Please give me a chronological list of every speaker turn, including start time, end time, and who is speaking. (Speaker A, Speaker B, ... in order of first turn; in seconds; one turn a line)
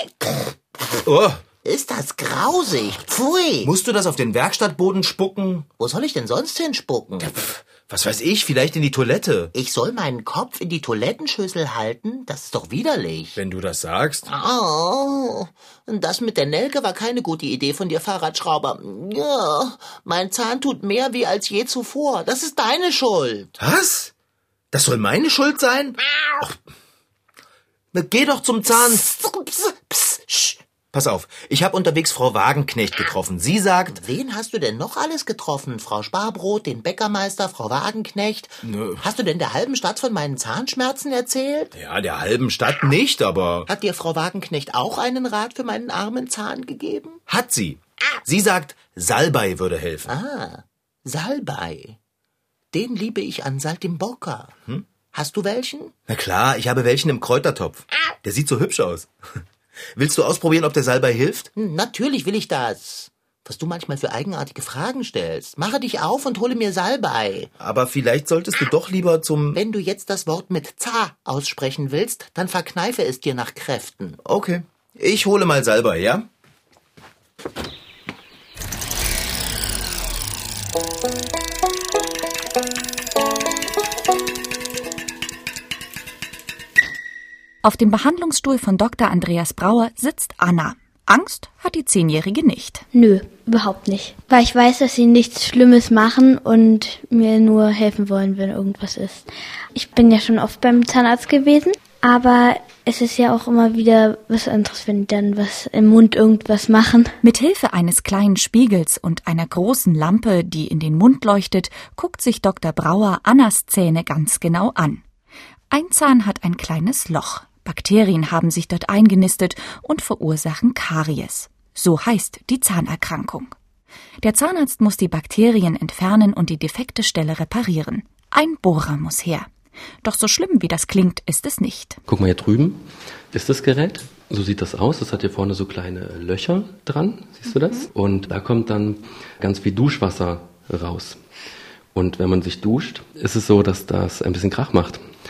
Speaker A: 1.0-1.4
Speaker B: 1.6-3.7
Speaker A: 3.6-5.7
Speaker B: 5.8-7.4
Speaker A: 7.2-9.5
Speaker B: 9.5-13.4
Speaker A: 13.4-14.3
Speaker B: 14.3-23.6
Speaker A: 23.6-24.1
Speaker A: 24.7-26.6
Speaker A: 27.9-34.0
Speaker B: 33.9-41.7
Speaker A: 38.6-39.0
Speaker A: 41.7-43.7
Speaker B: 43.7-47.2
Speaker A: 47.3-50.1
Speaker B: 50.1-52.0
Speaker B: 52.7-54.6
Speaker B: 55.1-55.9
Speaker A: 56.1-59.1
Speaker A: 60.0-61.5
Speaker B: 61.6-67.5
Speaker A: 67.6-69.6
Speaker B: 69.5-74.2
Speaker A: 74.2-76.3
Speaker C: 87.6-92.9
Speaker D: 92.9-107.2
Speaker C: 107.2-115.0
Speaker C: 115.7-123.5
Speaker C: 124.2-129.5
Speaker C: 130.0-132.0
Speaker E: 132.1-141.2
Speaker E: 141.9-145.0